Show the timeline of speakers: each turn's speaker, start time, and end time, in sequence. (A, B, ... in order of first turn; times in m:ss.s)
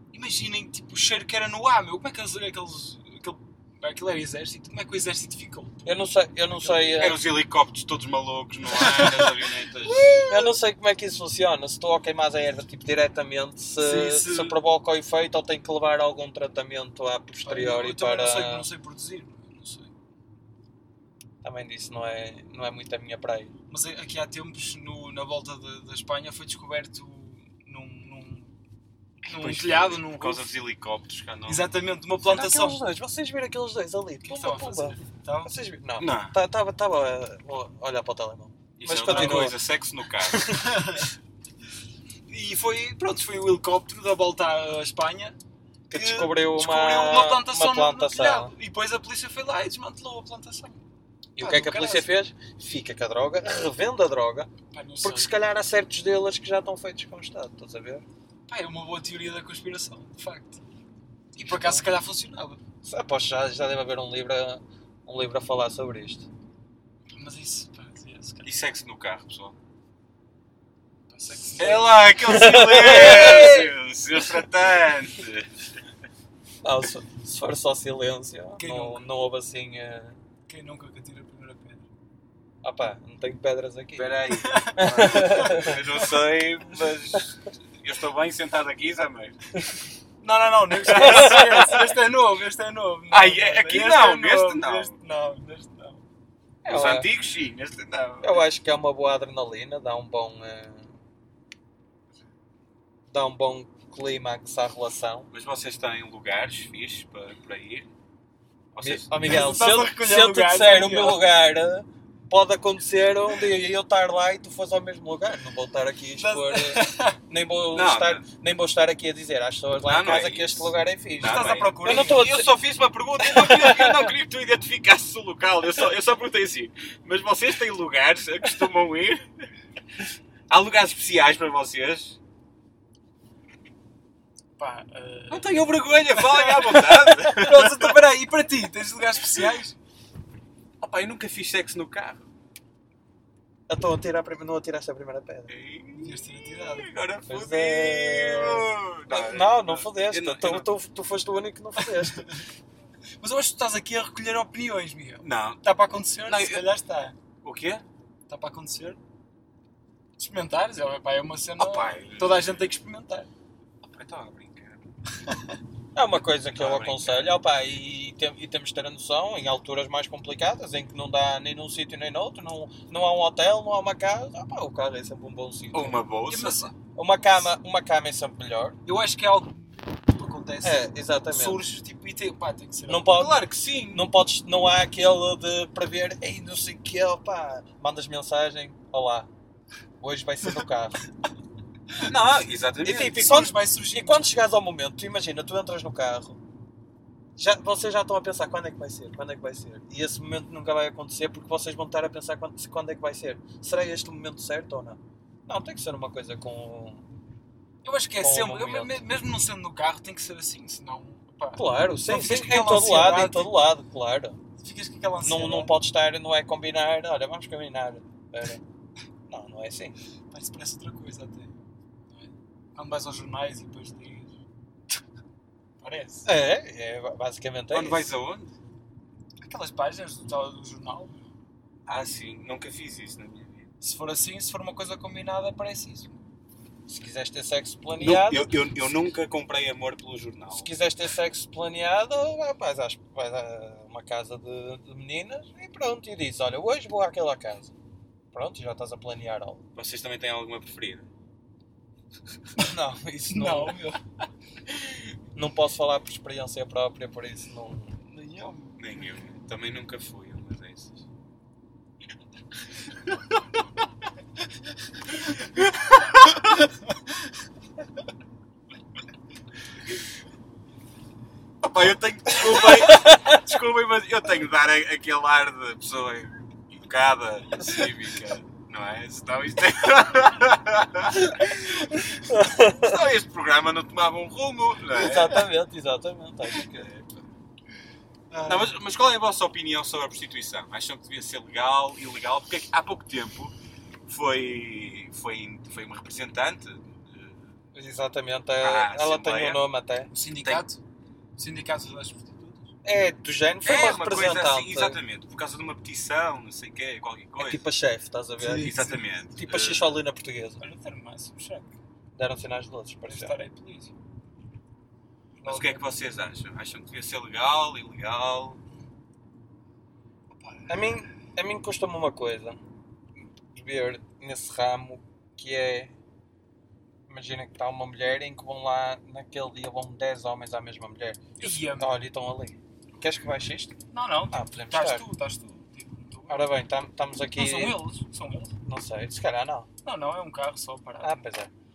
0:00.1-0:07.2 A
0:05.9-0:07.2 B
0:07.0-0:10.2 C
0:08.7-0:10.5 A
0:10.3-0:18.7 B
0:13.8-0:14.6 A
0:17.4-0:19.9 A
0:21.4-0:23.5 B
0:23.7-0:28.5 A
0:29.3-0:30.5 A
0:29.3-0:31.7 C
0:31.5-0:32.8 A
0:32.2-0:39.6 B
0:34.2-0:35.5 A
0:36.0-0:36.4 C
0:38.8-0:40.6 C
0:39.0-0:39.5 A
0:40.4-0:41.1 A
0:42.3-0:45.4 A
0:45.9-0:48.5 B
0:45.9-0:50.8 A
0:51.4-0:58.0 B
0:51.4-0:52.1 A
0:54.7-0:55.3 A
0:58.5-1:00.6 A
1:01.3-1:02.6 A
1:01.4-1:01.8 B
1:02.8-1:06.3 B
1:07.1-1:08.5 A
1:08.4-1:09.6 C
1:11.1-1:12.2 A
1:11.6-1:15.7 C
1:11.7-1:13.7 B
1:12.8-1:13.7 A
1:16.6-1:20.2 B
1:18.6-1:19.1 A
1:20.5-1:21.8 A
1:22.6-1:24.2 B
1:24.0-1:29.4 C
1:24.3-1:26.1 A
1:24.8-1:25.8 B
1:30.2-1:36.0 A
1:30.9-1:31.9 C
1:30.9-1:31.7 B
1:33.1-1:35.0 C
1:36.6-1:37.1 B
1:36.6-1:38.4 C
1:38.2-1:40.9 B
1:43.1-1:45.3 B
1:45.3-1:47.9 C
1:48.7-1:49.5 C
1:48.8-2:02.5 B
1:49.2-1:51.2 A
1:56.2-1:57.2 A
1:57.7-1:58.3 C
1:59.9-2:09.3 C
2:01.2-2:02.3 A
2:03.2-2:04.1 B
2:10.5-2:12.2 C
2:14.6-2:19.8 A
2:15.3-2:18.0 C
2:20.8-2:22.3 C
2:23.7-2:25.5 B
2:25.5-2:30.7 C
2:26.0-2:26.9 A
2:27.3-2:32.3 B
2:31.9-2:32.4 A
2:33.2-2:37.2 A
2:35.2-2:35.6 C
2:36.3-2:36.6 C
2:37.4-2:37.8 C
2:38.3-2:39.0 A
2:40.2-2:43.3 A
2:41.6-2:42.5 C
2:43.8-2:44.9 C
2:45.2-2:45.6 A
2:46.0-2:56.0 B
2:46.6-2:47.4 C
2:55.7-2:56.7 C
2:56.3-2:56.7 A
2:57.0-2:58.8 B
2:58.8-3:03.1 A
3:00.6-3:01.6 B
3:02.9-3:09.3 B
3:03.1-3:04.1 C
3:10.0-3:11.0 B
3:12.0-3:13.5 C
3:12.8-3:16.4 B
3:12.9-3:14.3 A
3:17.4-3:27.0 B
3:27.8-3:33.5 A
3:28.2-3:29.0 B
3:31.6-3:34.4 B
3:34.6-3:35.7 A
3:35.2-3:38.6 B
3:39.3-3:40.0 B
3:40.3-3:41.6 A
3:42.1-3:44.4 A
3:45.8-3:46.3 A
3:46.2-3:48.2 B
3:47.7-3:48.5 C
3:49.4-3:51.2 A
3:51.9-3:53.7 C
3:53.8-3:56.1 A
3:56.9-3:58.6 B
3:58.0-4:00.7 C
4:00.5-4:07.7 B
4:08.3-4:09.7 B
4:09.8-4:11.1 C
4:12.6-4:13.8 B
4:13.3-4:14.0 A
4:15.3-4:18.0 B
4:18.0-4:18.8 A
4:18.8-4:21.0 C
4:31.6-4:45.4 C
4:32.5-4:33.4 B
4:42.2-4:43.0 B
4:44.9-4:46.9 B
4:46.6-4:47.2 C
4:48.3-4:48.8 A
4:48.5-4:53.5 C
4:54.1-4:57.5 C
4:57.8-5:00.1 B
4:58.6-4:59.6 C
5:00.1-5:00.8 A
5:01.4-5:02.7 A
5:02.8-5:05.0 B
5:03.6-5:07.6 C
5:07.4-5:08.7 B
5:08.4-5:09.0 A
5:08.6-5:10.0 C
5:09.4-5:10.6 B
5:10.6-5:11.8 A
5:12.2-5:13.4 B
5:13.1-5:13.9 A
5:15.4-5:15.8 A
5:15.4-5:18.6 C
5:20.4-5:20.7 A
5:20.7-5:22.6 B
5:23.2-5:25.9 B
5:27.1-5:33.8 B
5:31.4-5:31.9 A
5:33.9-5:36.5 A
5:34.3-5:35.0 B
5:36.3-5:37.8 B
5:37.4-5:38.6 A
5:38.6-5:39.7 B
5:39.8-5:41.2 A
5:41.0-5:41.5 B